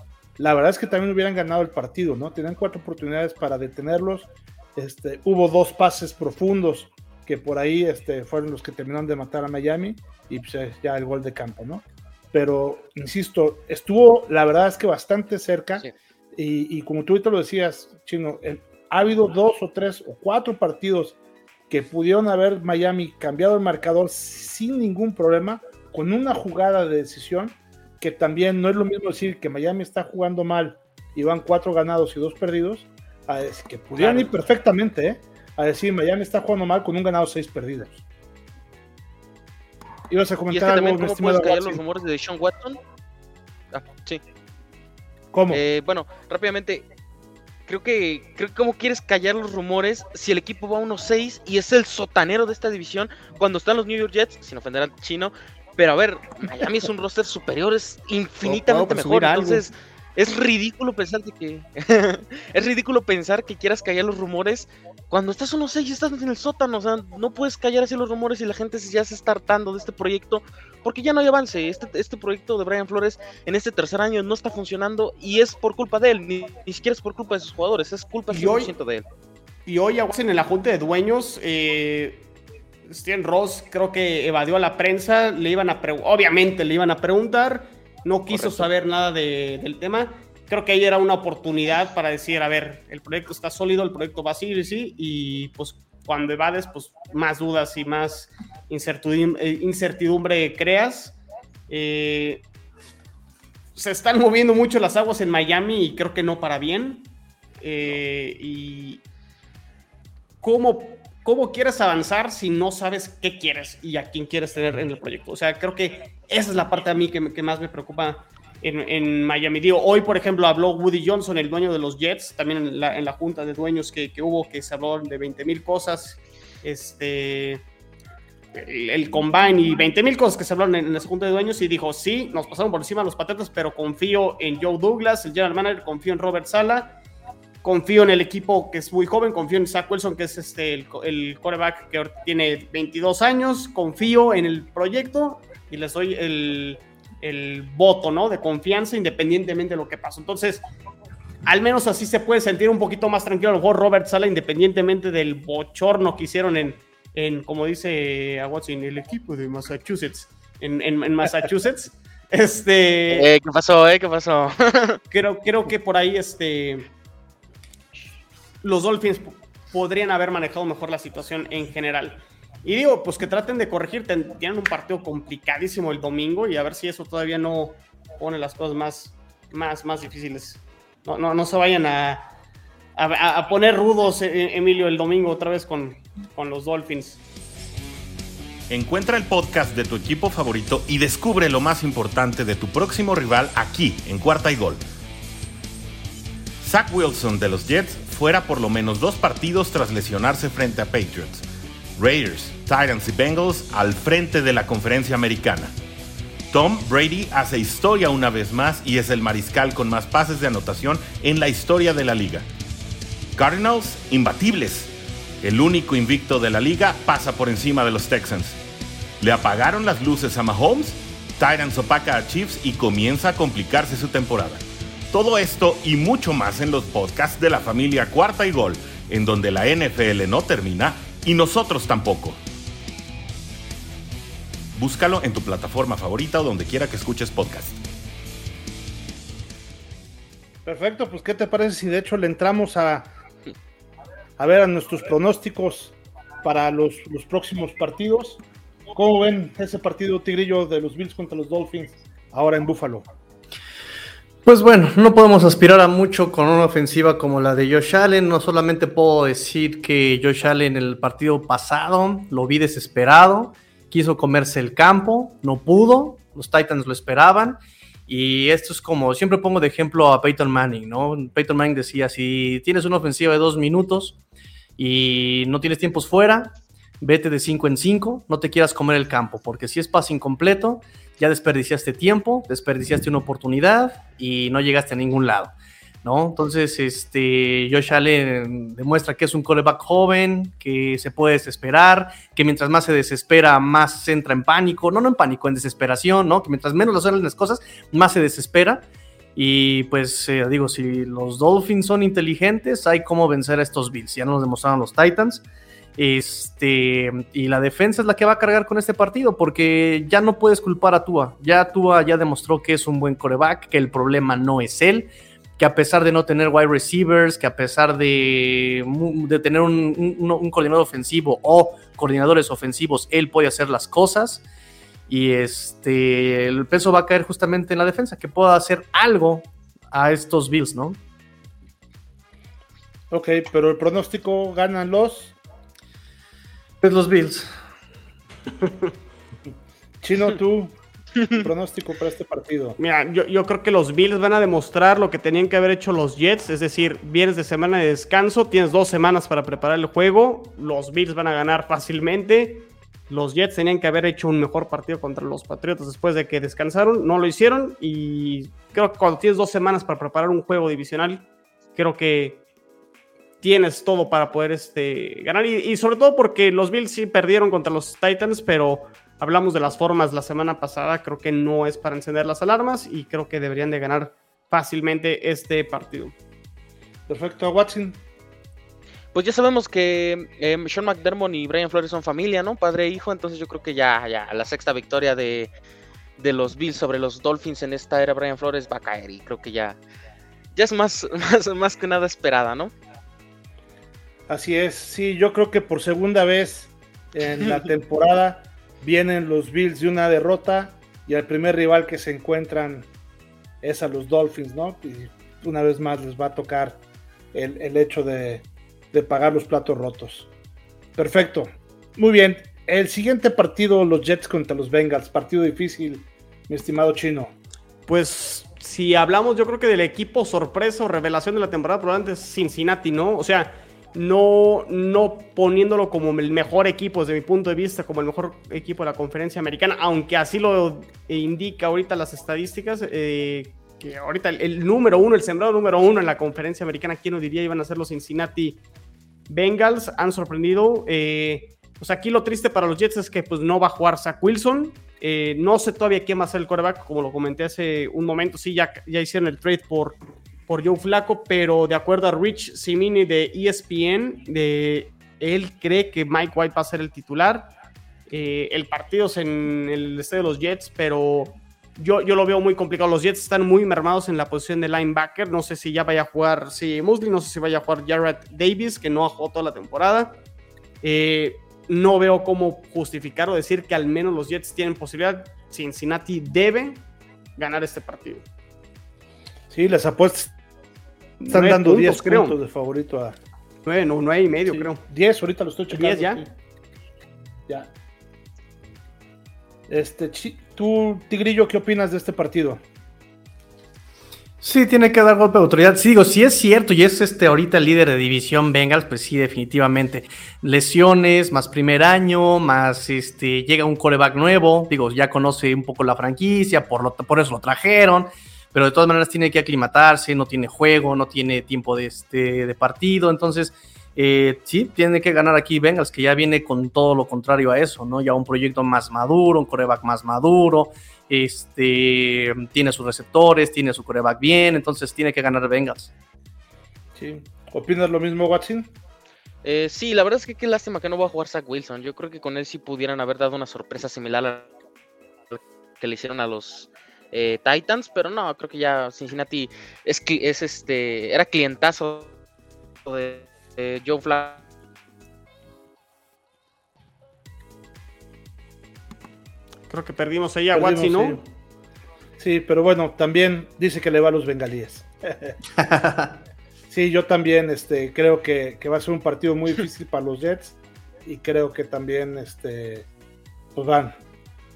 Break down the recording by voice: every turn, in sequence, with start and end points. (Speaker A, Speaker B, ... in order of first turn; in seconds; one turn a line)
Speaker A: 0.4-21.2
Speaker A: 21.7-38.0
Speaker B: 34.0-34.3
Speaker A: 40.1-41.8
Speaker C: 40.5-42.8
Speaker C: 43.7-44.2
Speaker A: 45.3-45.6
Speaker C: 45.5-46.8
Speaker C: 47.7-79.1
Speaker B: 58.4-59.7
Speaker B: 78.3-78.7
Speaker B: 79.7-82.3
Speaker B: 82.9-101.2
Speaker C: 88.3-88.7
Speaker B: 101.7-102.4
Speaker B: 103.8-109.0
Speaker B: 110.4-127.6
Speaker B: 128.5-137.0
Speaker B: 137.6-150.6
Speaker B: 151.4-163.3
Speaker C: 163.1-165.0
Speaker B: 165.1-166.9
Speaker B: 168.6-182.3
Speaker B: 183.0-187.2
Speaker D: 188.7-194.8
Speaker D: 196.6-201.4
Speaker D: 202.0-205.7
Speaker D: 206.5-212.4
Speaker D: 213.4-218.6
Speaker D: 219.2-232.4
Speaker D: 234.8-237.8
Speaker A: 240.7-243.1
Speaker A: 244.4-248.4
Speaker A: 248.9-253.1
Speaker E: 254.5-274.2
Speaker E: 274.8-305.4
Speaker E: 306.0-324.4
Speaker E: 325.1-331.0
Speaker A: 333.1-335.4
Speaker E: 336.8-337.5
Speaker A: 340.0-342.8
Speaker B: 342.8-362.4
Speaker B: 363.4-376.1
Speaker A: 377.1-378.0
Speaker C: 379.1-385.5
Speaker C: 386.2-389.8
Speaker C: 390.6-392.7
Speaker A: 394.3-402.9
Speaker A: 403.6-410.3
Speaker A: 410.9-417.4
Speaker B: 417.9-438.6
Speaker B: 439.3-457.5
Speaker B: 458.1-470.2
Speaker B: 470.8-476.9
Speaker B: 477.4-478.2
Speaker A: 479.5-480.3
Speaker B: 481.2-482.4
Speaker A: 481.3-483.2
Speaker B: 483.6-484.8
Speaker A: 484.5-486.3
Speaker B: 485.7-486.2
Speaker A: 489.7-492.6
Speaker E: 494.4-525.9
Speaker A: 527.0-528.7
Speaker C: 529.4-534.5
Speaker C: 535.3-542.1
Speaker C: 542.9-544.4
Speaker B: 549.7-551.2
Speaker A: 550.5-551.3
Speaker A: 552.2-555.4
Speaker E: 555.6-556.2
Speaker A: 556.7-562.9
Speaker A: 563.5-564.0